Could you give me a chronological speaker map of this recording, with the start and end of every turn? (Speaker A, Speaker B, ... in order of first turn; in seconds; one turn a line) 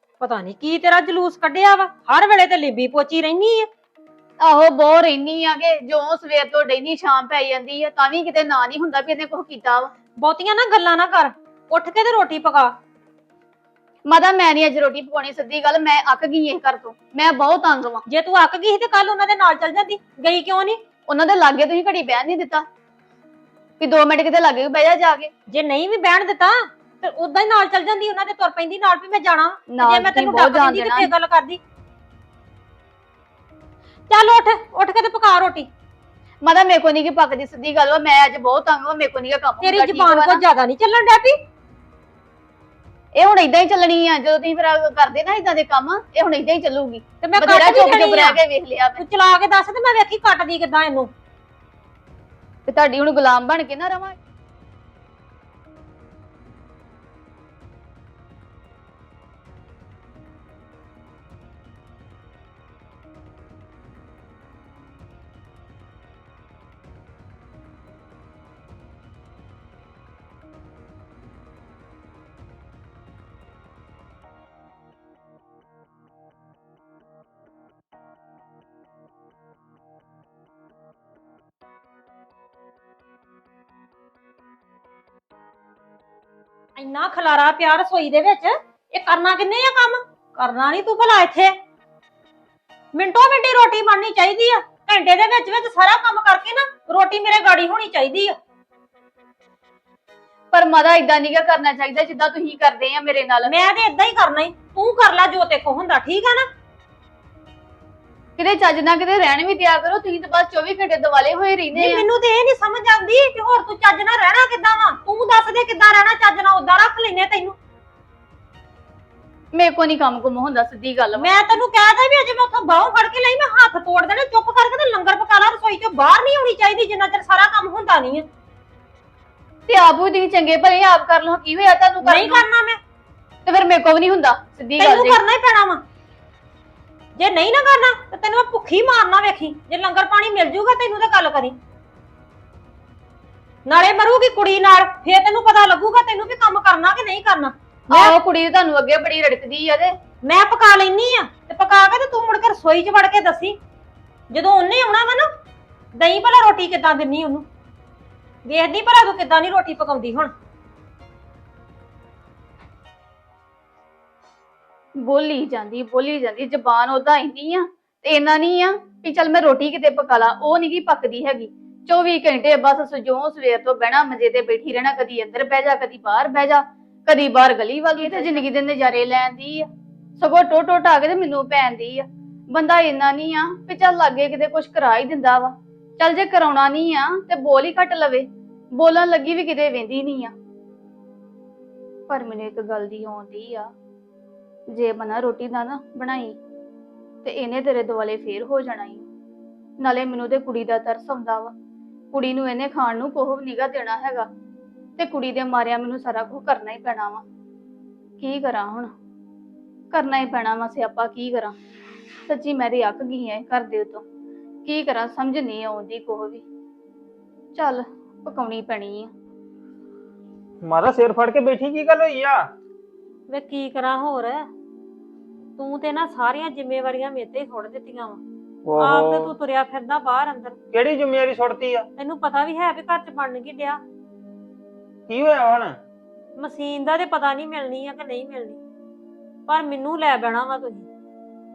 Speaker A: 0.2-3.7
Speaker B: 4.4-9.9
Speaker A: 10.2-12.7
Speaker B: 14.0-18.0
Speaker A: 18.1-20.8
Speaker B: 21.1-22.6
Speaker B: 23.8-25.3
Speaker A: 25.5-31.6
Speaker B: 29.7-31.1
Speaker A: 34.1-35.7
Speaker B: 36.4-40.4
Speaker A: 39.6-41.4
Speaker B: 43.1-49.0
Speaker A: 47.2-48.4
Speaker A: 49.0-51.1
Speaker B: 52.7-54.1
Speaker A: 86.8-91.5
Speaker A: 92.9-98.3
Speaker B: 100.5-103.5
Speaker A: 103.5-106.5
Speaker B: 108.4-112.0
Speaker A: 111.7-117.5
Speaker B: 119.5-121.3
Speaker A: 121.2-128.2
Speaker B: 129.7-132.4
Speaker A: 132.0-132.8
Speaker B: 133.4-135.2
Speaker A: 134.8-135.8
Speaker A: 137.2-141.6
Speaker A: 143.7-148.2
Speaker B: 147.9-149.9
Speaker A: 150.2-153.6
Speaker A: 154.3-155.3
Speaker A: 156.0-157.4
Speaker A: 158.4-160.3
Speaker B: 165.0-190.3
Speaker A: 177.9-178.4
Speaker B: 192.1-193.7
Speaker B: 194.7-196.4
Speaker B: 197.2-199.1
Speaker B: 199.8-201.5
Speaker B: 202.1-204.3
Speaker B: 205.0-207.2
Speaker B: 208.2-208.9
Speaker B: 209.9-211.5
Speaker B: 212.3-214.0
Speaker B: 214.6-216.4
Speaker B: 217.5-219.1
Speaker C: 220.6-222.5
Speaker A: 223.3-224.4
Speaker A: 225.6-228.2
Speaker C: 228.6-229.4
Speaker A: 228.8-230.6
Speaker C: 230.7-231.9
Speaker A: 232.0-233.8
Speaker C: 235.1-235.8
Speaker A: 236.4-238.6
Speaker A: 239.5-240.9